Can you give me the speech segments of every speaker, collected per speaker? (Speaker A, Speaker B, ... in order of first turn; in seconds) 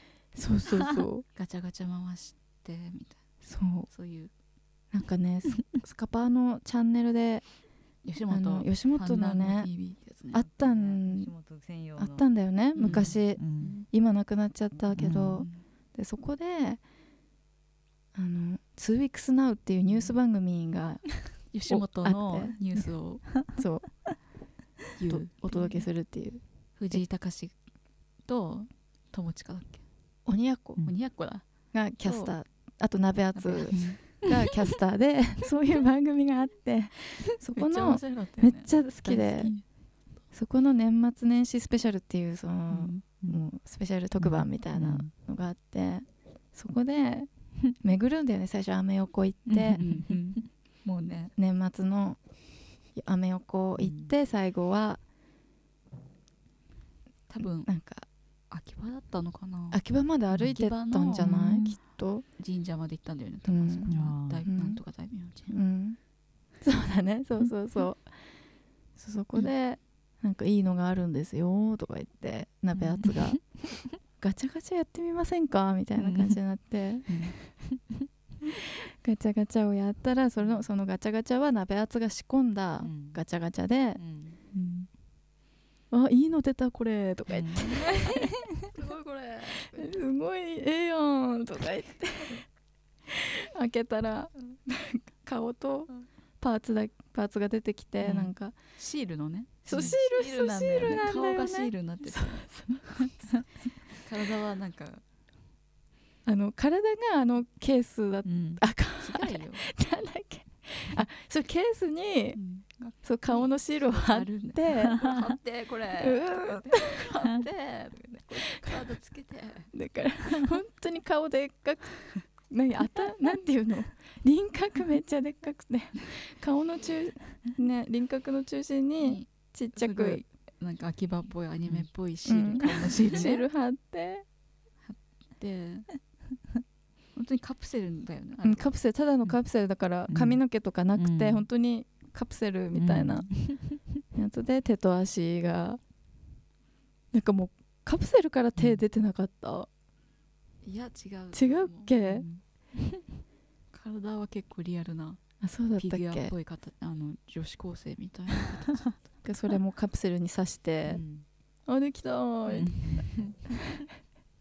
Speaker A: 0.3-1.2, 3.4-3.9, 4.9-7.5, 8.3-9.7, 10.3-11.3, 12.0-16.8, 18.1-22.6, 23.5-23.9, 25.1-27.0, 30.3-30.9, 31.7-39.5, 40.3-49.8, 51.4-52.2, 53.0-55.0, 57.4-58.1, 59.7-62.2, 63.5-63.9, 64.5-64.8, 65.5-66.0, 66.6-68.1, 69.0-73.4, 74.2-77.2, 78.5-84.0, 85.9-88.3, 89.6-92.4, 93.1-95.9, 96.4-98.5, 99.7-103.4, 106.3-112.4, 113.0-115.0, 116.0-117.1, 118.4-118.8, 119.7-130.2, 132.3-134.2, 138.4-143.3, 144.1-145.8, 147.1-149.7, 151.3-152.3, 155.4-156.3, 159.2-161.0, 161.7-163.0
Speaker B: 1.4-3.2, 3.9-4.3, 8.0-10.5, 12.8-13.9, 19.9-20.1, 21.5-23.3, 25.0-25.8, 26.8-27.5, 28.2-29.8, 30.8-31.4, 32.0-32.3, 33.4-34.0, 37.5-39.6, 42.7-43.0, 49.8-51.3, 57.3-57.7, 58.5-59.8, 60.4-61.3, 62.4-65.6, 84.5-84.9, 88.7-89.9, 98.0-102.6, 103.9-105.0, 109.0-109.7, 112.3-119.7, 129.0-133.4, 134.8-135.9, 137.2-138.7, 150.6-152.4, 153.7-155.2, 155.8-159.0
Speaker C: 10.4-12.2, 12.9-13.8, 14.9-15.4, 33.7-34.0, 44.2-45.1, 49.5-50.1, 53.8-54.1, 60.3-60.6, 61.1-61.8, 63.9-64.4, 73.0-73.4, 76.0-76.4, 77.1-78.0, 82.8-83.2, 84.0-84.4, 87.3-88.7, 108.2-108.6, 115.0-115.3, 140.1-140.4, 141.0-141.4, 142.7-143.8, 148.6-148.8, 160.9-161.2, 162.6-163.4